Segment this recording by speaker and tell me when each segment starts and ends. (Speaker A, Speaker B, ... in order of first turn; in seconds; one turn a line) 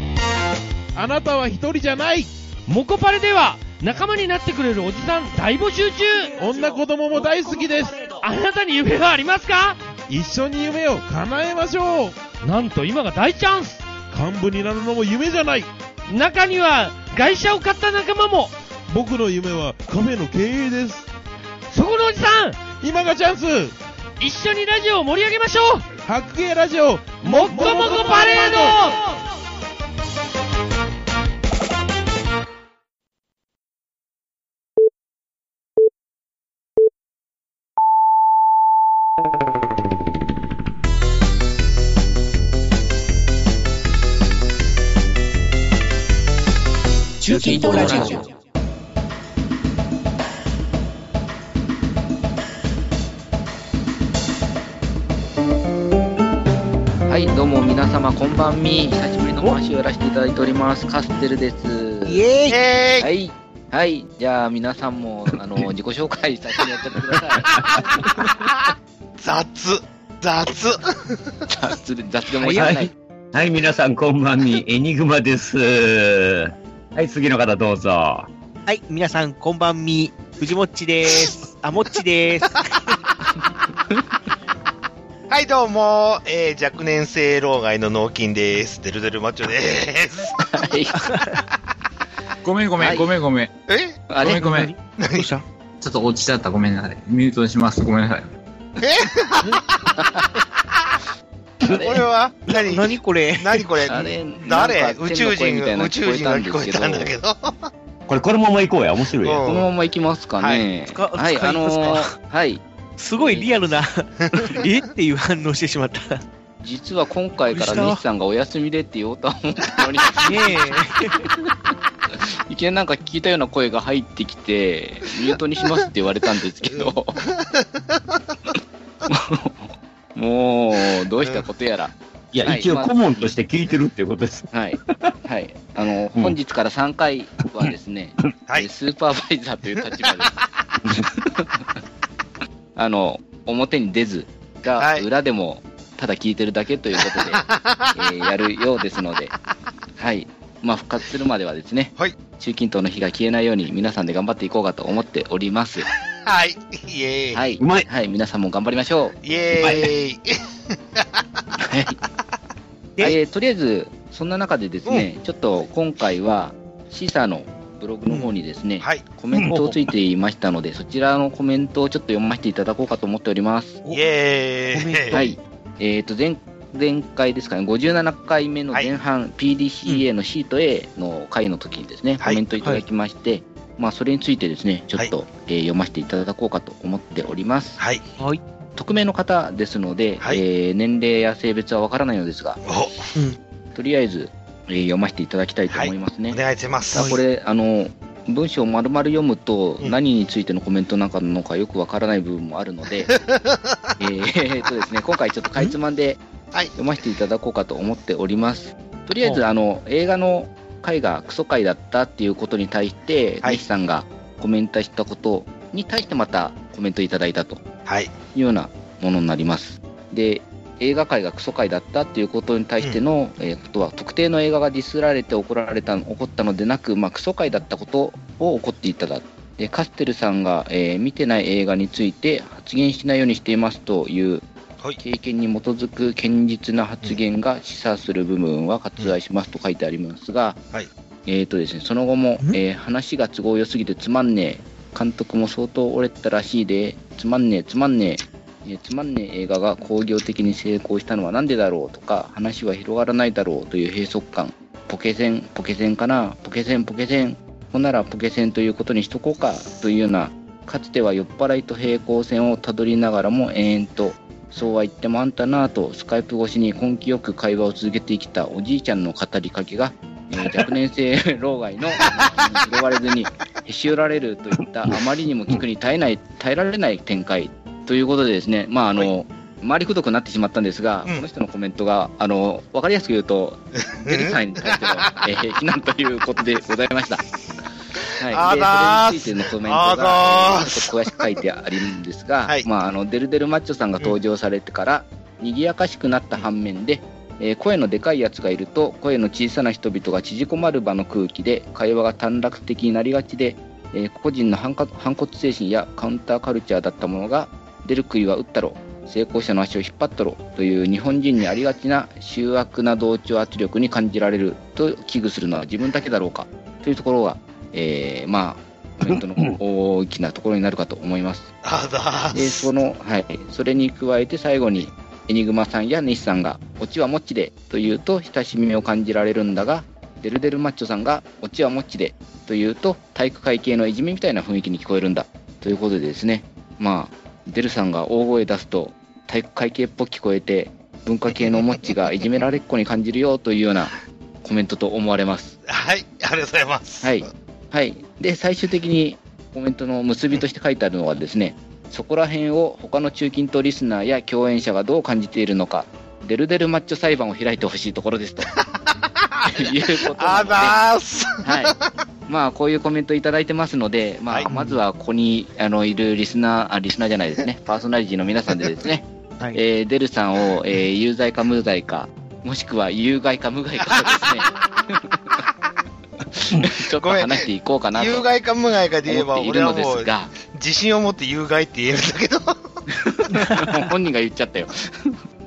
Speaker A: 0.9-2.3
Speaker B: 2.7-6.3
Speaker A: 6.3-8.1
Speaker B: 8.1-9.8
Speaker A: 10.1-12.2
Speaker B: 12.4-13.8
Speaker A: 14.1-15.7
Speaker B: 16.1-18.5
Speaker A: 18.9-21.1
Speaker B: 21.7-22.6
Speaker A: 22.7-23.7
Speaker B: 24.2-25.9
Speaker A: 26.0-28.9
Speaker B: 27.2-29.0
Speaker C: 47.2-48.2
Speaker D: 47.5-48.1
Speaker D: 57.1-62.2
Speaker C: 62.0-62.6
Speaker E: 62.5-63.1
Speaker D: 63.0-68.3
Speaker E: 69.2-71.2
Speaker D: 71.5-72.9
Speaker C: 72.4-72.7
Speaker F: 72.5-78.3
Speaker C: 78.7-82.9
Speaker E: 85.3-90.6
Speaker D: 90.5-91.2
Speaker C: 91.1-91.4
Speaker G: 92.4-93.5
Speaker D: 92.8-93.1
Speaker E: 93.7-94.0
Speaker D: 94.1-94.5
Speaker G: 94.2-94.7
Speaker C: 94.2-95.4
Speaker E: 95.0-95.3
Speaker G: 95.8-98.3
Speaker E: 98.8-99.8
Speaker D: 100.0-100.3
Speaker D: 101.6-102.1
Speaker E: 101.6-107.7
Speaker C: 102.5-103.7
Speaker D: 103.8-107.1
Speaker F: 108.1-109.5
Speaker E: 109.2-109.7
Speaker D: 109.4-112.6
Speaker E: 110.4-110.7
Speaker C: 110.8-112.1
Speaker C: 113.0-116.2
Speaker D: 113.2-113.7
Speaker D: 116.6-120.6
Speaker C: 117.5-118.0
Speaker C: 120.2-121.2
Speaker D: 121.2-121.5
Speaker D: 122.1-127.2
Speaker E: 126.7-127.6
Speaker D: 129.1-131.9
Speaker E: 131.2-131.4
Speaker F: 132.3-135.1
Speaker D: 132.4-133.3
Speaker D: 134.5-140.4
Speaker D: 140.9-141.7
Speaker D: 142.8-147.4
Speaker E: 144.8-145.1
Speaker E: 147.1-147.9
Speaker D: 147.9-149.3
Speaker D: 150.0-155.9
Speaker E: 156.2-157.4
Speaker D: 157.3-159.2
Speaker F: 157.6-157.9
Speaker E: 159.2-160.4
Speaker F: 159.6-159.9
Speaker D: 161.7-162.0
Speaker D: 163.0-173.8
Speaker E: 168.8-169.1
Speaker F: 169.3-169.9
Speaker E: 173.9-175.2
Speaker C: 174.7-175.4
Speaker D: 175.1-187.8
Speaker D: 188.8-192.6
Speaker E: 192.6-193.0
Speaker D: 193.7-196.4
Speaker E: 195.7-197.2
Speaker D: 196.9-203.1
Speaker E: 203.1-203.4
Speaker D: 204.0-206.2
Speaker D: 206.8-217.6
Speaker E: 217.8-218.1
Speaker D: 218.3-234.4
Speaker D: 235.0-240.6
Speaker D: 241.2-287.2
Speaker E: 272.0-272.6
Speaker F: 274.9-275.6
Speaker E: 283.9-285.1
Speaker E: 288.2-291.3
Speaker D: 288.2-321.5
Speaker F: 319.1-319.6
Speaker E: 321.6-322.6
Speaker D: 322.3-345.6
Speaker E: 345.7-347.3
Speaker D: 347.0-358.5
Speaker E: 359.4-361.8
Speaker D: 359.5-360.8
Speaker D: 361.4-361.7
Speaker D: 362.3-375.2
Speaker C: 364.5-364.8
Speaker D: 376.3-378.3
Speaker E: 377.0-382.6
Speaker D: 379.0-380.3
Speaker D: 382.9-385.2